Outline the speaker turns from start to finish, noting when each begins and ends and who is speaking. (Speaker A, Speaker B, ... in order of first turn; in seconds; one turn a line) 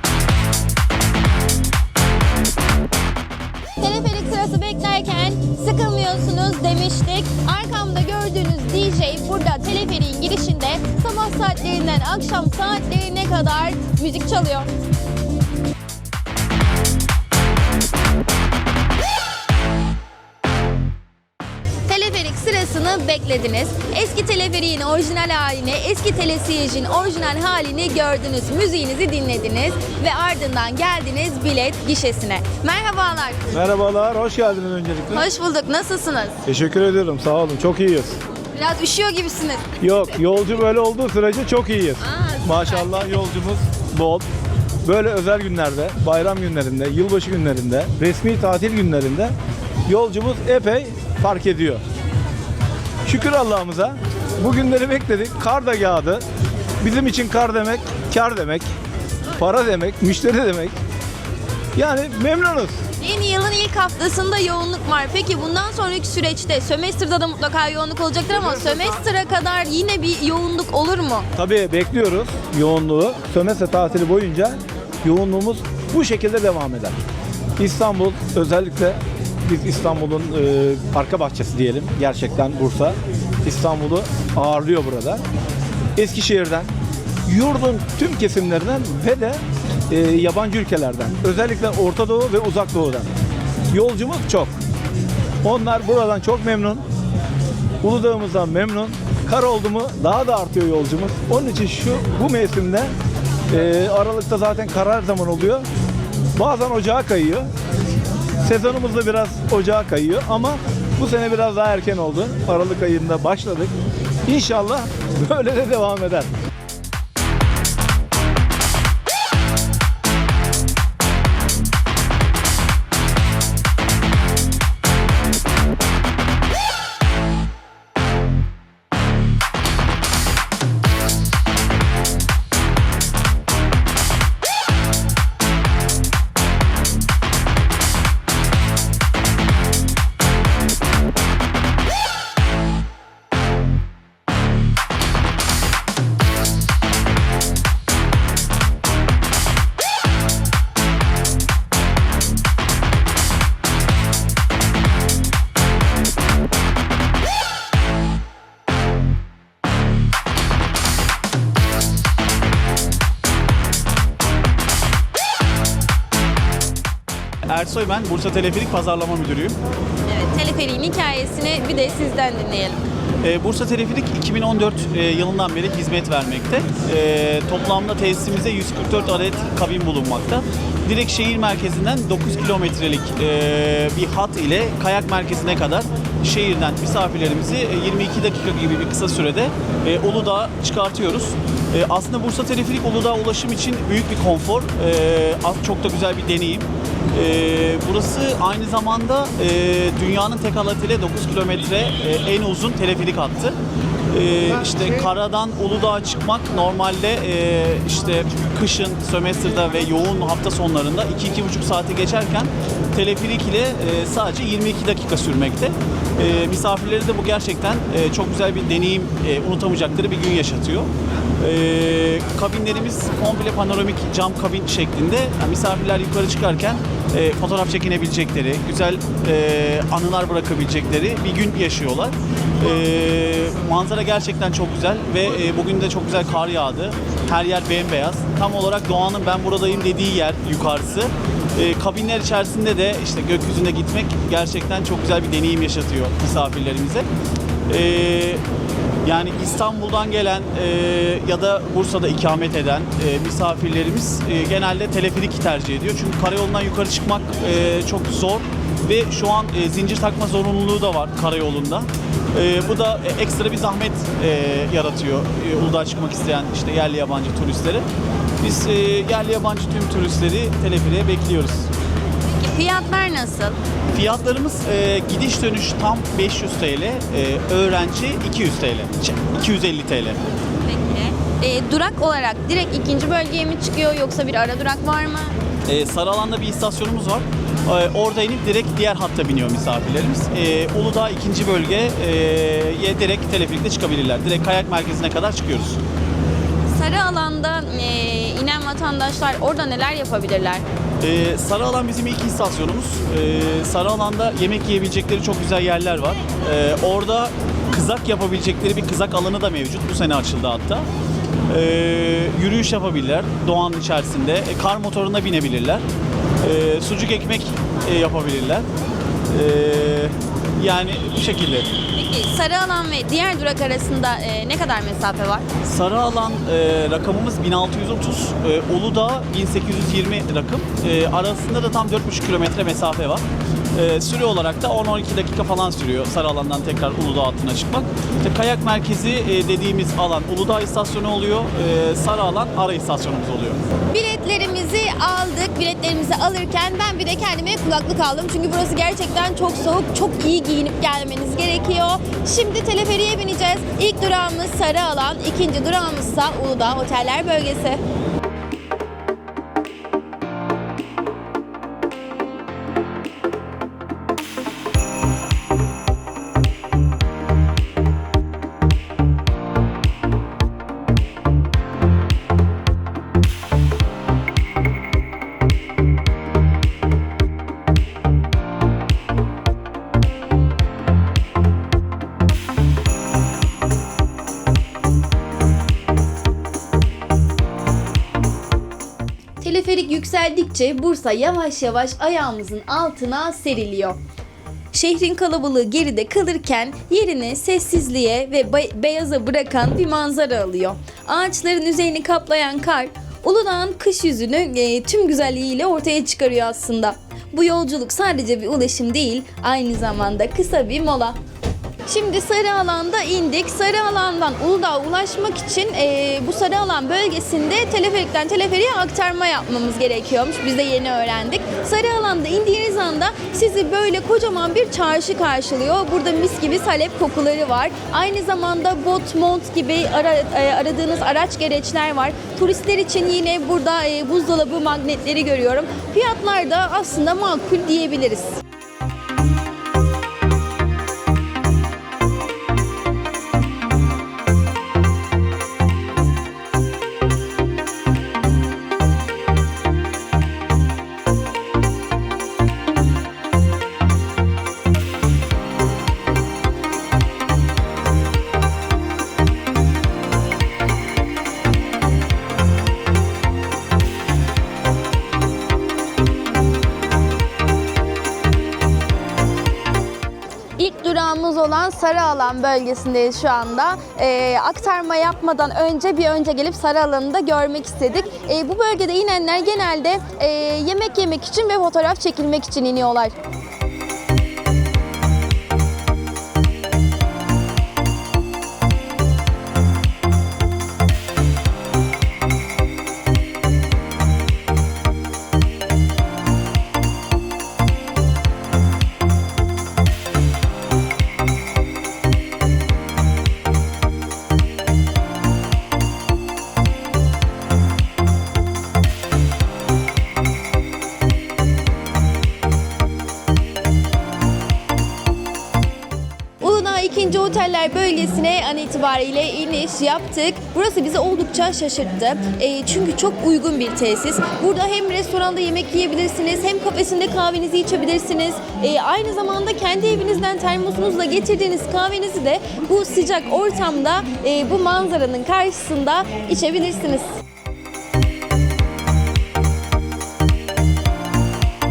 Speaker A: 3.8-14.7
Speaker A: 21.8-33.4
Speaker B: 33.5-35.2
Speaker A: 35.1-36.4
Speaker B: 36.5-38.2
Speaker A: 38.5-40.0
Speaker B: 39.8-44.2
Speaker A: 42.0-43.2
Speaker B: 44.8-49.3
Speaker B: 49.9-51.8
Speaker B: 53.0-56.2
Speaker B: 56.8-58.7
Speaker B: 59.3-60.8
Speaker B: 61.7-62.8
Speaker A: 63.0-71.3
Speaker B: 71.3-77.0
Speaker B: 77.6-85.2
Speaker B: 86.0-86.7
Speaker B: 87.2-93.1
Speaker B: 93.7-94.6
Speaker B: 95.4-96.8
Speaker B: 97.8-102.9
Speaker B: 103.5-105.7
Speaker B: 106.3-107.5
Speaker B: 108.4-113.7
Speaker B: 114.2-116.3
Speaker C: 167.4-169.6
Speaker A: 170.0-172.8
Speaker C: 173.2-203.6
Speaker C: 204.1-220.9
Speaker C: 221.4-247.1
Speaker C: 247.7-248.4
Speaker C: 249.0-267.9
Speaker C: 268.4-271.7
Speaker A: 272.3-273.6
Speaker C: 273.9-280.2
Speaker A: 280.6-285.4
Speaker C: 285.7-295.8
Speaker A: 296.7-300.6
Speaker C: 301.0-310.9
Speaker C: 311.5-315.8
Speaker C: 316.4-318.6
Speaker C: 319.3-321.7
Speaker A: 321.9-325.5
Speaker C: 325.6-333.2
Speaker C: 333.7-343.6
Speaker A: 343.9-357.8
Speaker A: 389.4-394.0
Speaker A: 394.7-411.2
Speaker A: 411.8-438.4
Speaker A: 470.6-483.1
Speaker A: 516.4-537.1